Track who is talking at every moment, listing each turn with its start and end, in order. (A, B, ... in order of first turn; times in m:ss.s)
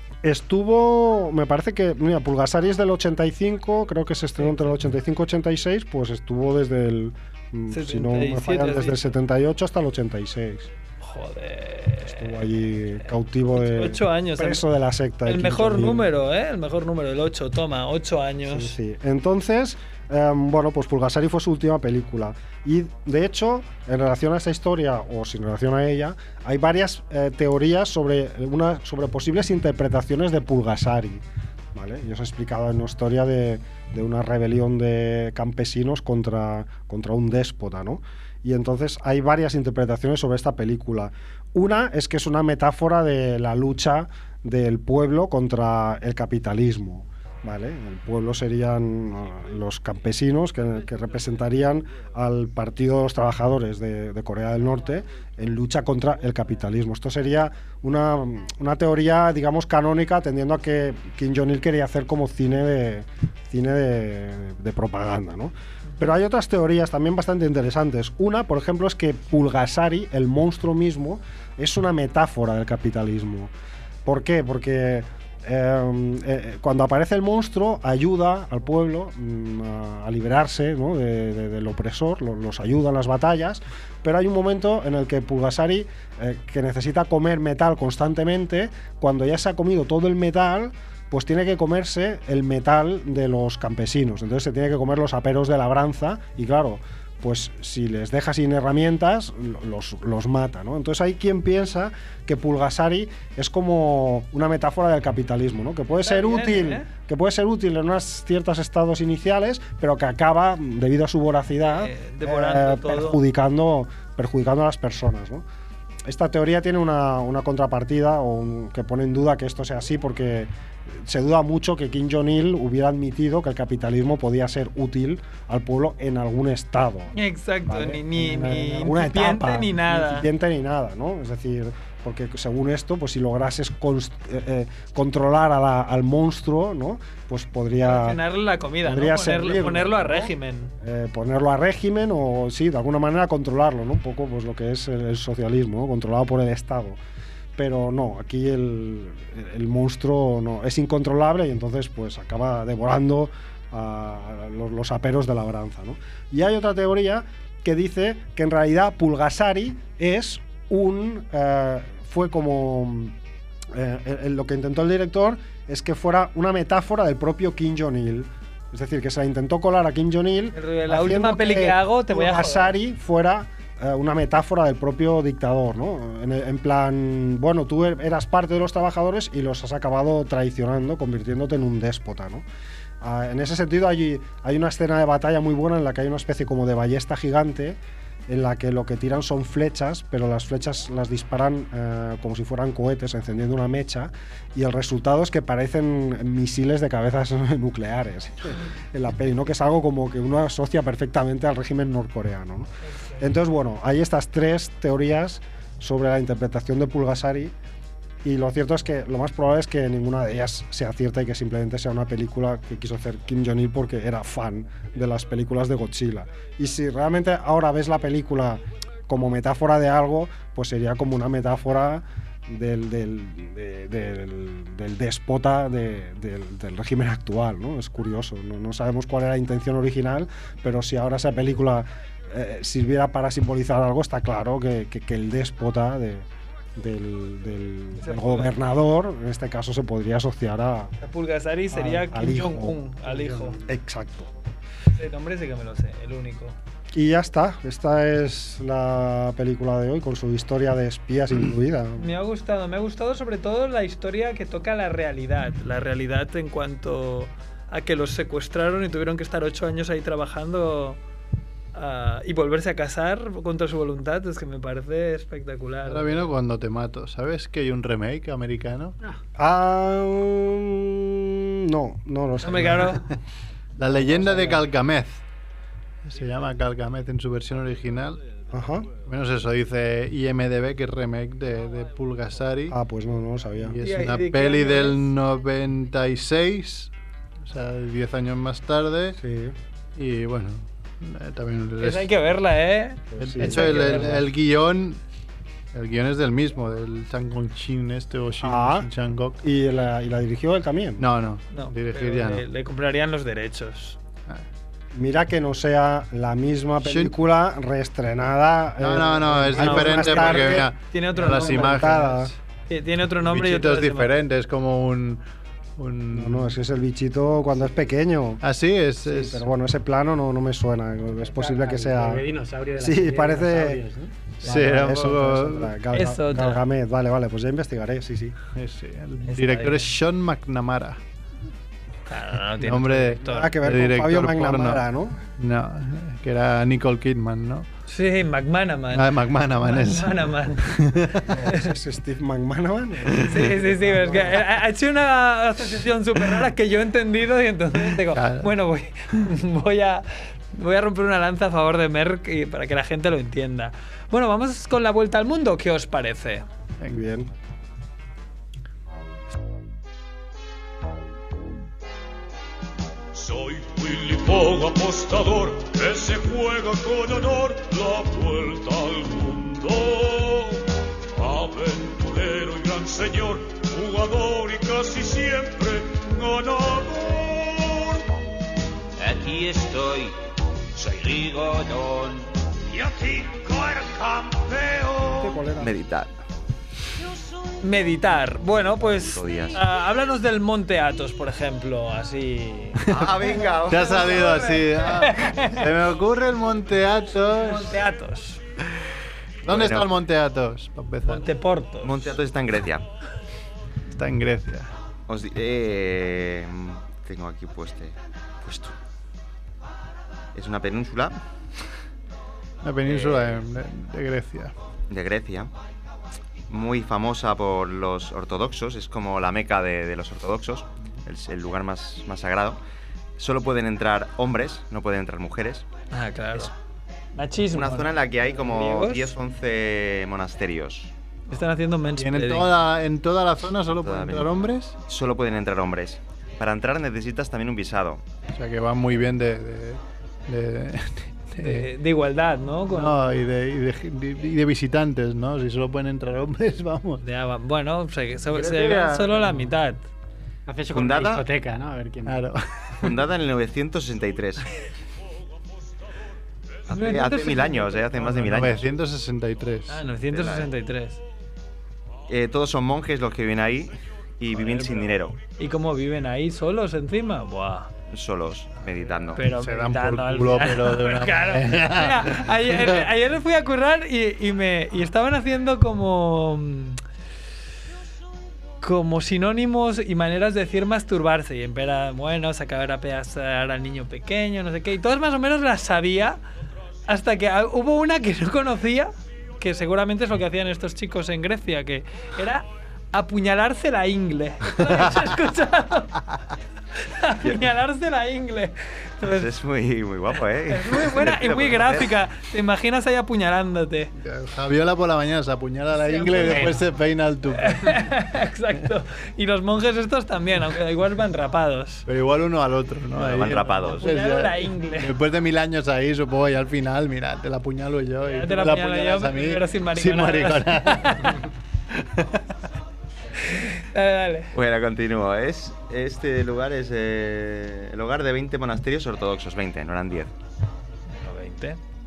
0:00.2-0:10.7 A
0:04.4-0:04.7 B
0:07.7-0:09.0 B
0:11.0-0:12.4 B
0:12.0-0:16.1 A
0:13.5-0:14.6 B
0:15.2-0:18.7 B
0:18.4-1:13.5 A
1:14.0-1:55.4 A
1:45.9-1:46.9 B
1:51.7-1:53.2 B
1:56.0-2:07.1 A
2:07.1-2:10.3 B
2:07.7-2:18.2 A
2:17.8-2:20.7 B
2:18.8-2:27.0 A
2:27.6-2:43.1 A
2:43.7-3:02.4 A
2:50.5-2:52.8 B
3:03.0-3:22.7 A
3:22.8-3:23.3 B
3:23.2-3:27.5 A
3:28.2-3:56.2 A
3:56.8-4:00.9 A
3:58.0-3:58.5 B
4:01.0-4:03.6 B
4:01.7-4:02.8 A
4:03.6-4:04.3 A
4:04.9-4:06.6 B
4:06.9-4:12.1 A
4:12.0-4:21.0 B
4:21.7-4:26.3 B
4:25.8-4:29.0 C
4:29.4-4:33.0 A
4:32.4-4:33.0 B
4:32.5-4:33.1 C
4:33.8-4:35.2 C
4:34.0-4:34.6 A
4:36.0-4:38.2 C
4:38.5-4:38.9 A
4:39.0-4:42.8 C
4:42.7-4:43.8 A
4:43.5-4:49.2 C
4:43.8-4:45.0 B
4:49.2-4:49.6 A
4:49.9-4:52.1 C
4:51.8-4:54.2 B
4:53.1-4:54.2 A
4:53.2-4:55.0 C
4:55.7-4:59.4 C
4:58.4-4:58.9 A
4:59.4-5:01.1 A
5:01.0-5:02.4 C
5:01.5-5:04.0 B
5:04.9-5:12.3 A
5:06.8-5:07.1 C
5:08.8-5:12.3 C
5:09.5-5:14.1 B
5:13.2-5:15.2 C
5:15.8-5:16.5 C
5:16.1-5:18.4 A
5:18.4-5:19.4 C
5:19.0-5:22.2 A
5:21.2-5:24.1 D
5:22.8-5:23.8 A
5:24.4-5:25.7 C
5:24.4-5:28.4 A
5:25.9-5:26.6 B
5:28.5-5:31.0 C
5:29.2-5:29.9 B
5:32.1-5:33.5 B
5:32.6-5:34.8 C
5:33.2-5:35.2 A
5:35.4-5:37.7 C
5:37.9-5:40.7 B
5:38.9-5:41.4 C
5:41.2-5:44.4 A
5:43.2-5:56.4 B
5:47.8-5:48.5 C
5:56.9-5:57.3 A
6:03.1-6:18.0 E
6:19.0-6:20.1 F
6:20.8-6:22.3 F
6:22.7-6:25.1 E
6:25.2-6:25.7 A
6:25.6-6:26.1 G
6:27.6-6:35.6 B
6:28.8-6:29.6 G
6:32.8-6:37.8 C
6:32.9-6:34.3 G
6:37.3-6:38.4 B
6:39.4-6:39.9 G
6:39.4-6:41.3 C
6:41.0-6:42.2 B
6:41.8-6:42.8 G
6:43.9-6:44.7 C
6:45.1-6:48.7 G
6:50.3-6:51.2 G
6:52.6-6:54.5 C
6:52.8-6:53.4 G
6:54.9-6:55.5 G
6:56.5-7:02.6 G
7:03.2-7:05.6 G
7:05.9-7:06.5 B
7:07.2-7:09.1 B
7:07.5-7:10.9 G
7:11.3-7:12.5 B
7:12.0-7:14.8 C
7:13.8-7:18.0 G
7:18.3-7:21.7 C
7:21.4-7:23.0 B
7:22.7-7:27.0 C
7:27.0-7:29.8 B
7:28.3-7:29.4 C
7:30.4-7:32.2 D
7:30.7-7:31.2 G
7:32.0-7:32.9 C
7:32.8-7:34.4 G
7:36.7-7:38.7 G
7:36.7-7:38.5 B
7:38.3-7:39.8 C
7:39.7-7:41.0 B
7:40.1-7:40.5 G
7:42.1-7:45.2 G
7:44.4-7:47.7 B
7:47.9-7:49.2 G
7:49.1-7:56.8 B
7:49.2-7:52.8 C
7:58.6-8:06.2 B
8:06.9-8:16.0 B
8:14.6-8:15.0 C
8:16.8-8:19.3 B
8:19.0-8:22.0 G
8:20.5-8:23.9 B
8:24.0-8:27.9 C
8:25.8-8:26.6 B
8:27.4-8:31.8 B
8:31.9-8:41.2 C
8:33.0-8:33.8 G
8:33.6-8:34.9 B
8:38.0-8:41.1 B
8:41.7-8:42.2 C
8:43.2-8:44.3 B
8:44.3-8:50.1 G
8:50.9-8:51.6 B